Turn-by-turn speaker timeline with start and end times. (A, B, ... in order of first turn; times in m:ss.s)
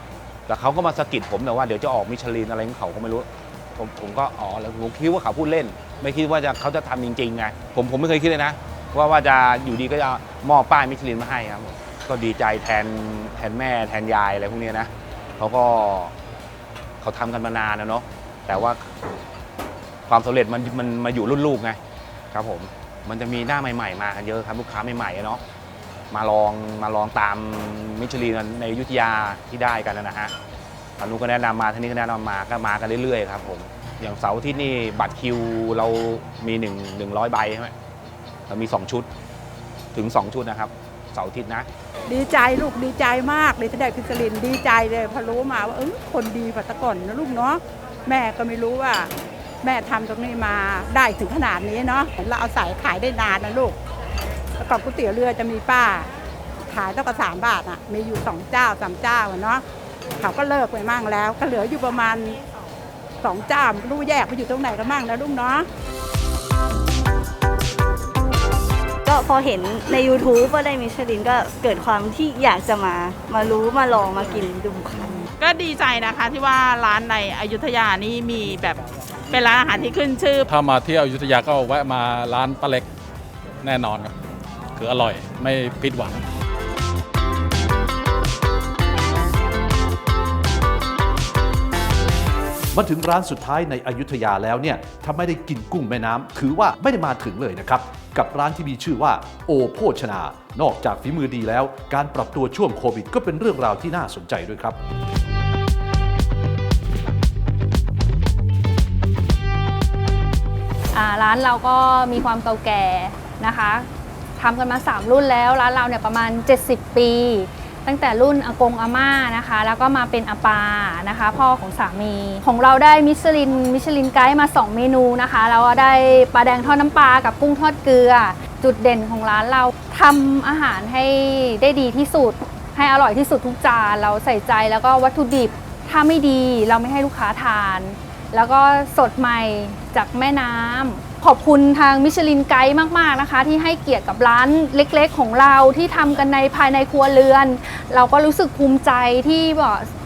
0:00.5-0:16.1 A
0:17.0-0:18.8 A
0:20.1-0:21.8 A
0:22.3-0:25.4 A
0:26.1-0:30.3 A
0:31.0-0:37.7 A
0:38.5-0:39.1 A
0:39.9-0:41.7 A
0:42.1-0:49.1 B
0:49.6-0:53.8 B
0:54.6-0:56.1 B
0:56.7-0:59.6 B
1:00.2-1:02.4 B
1:03.2-1:05.6 B
1:09.0-1:15.2 C
1:15.4-1:20.5 D
1:20.5-1:22.8 E
1:23.6-1:24.1 E
1:24.8-1:26.2 E
1:32.7-1:44.8 F
1:50.9-1:53.9 G
1:54.4-2:29.9 G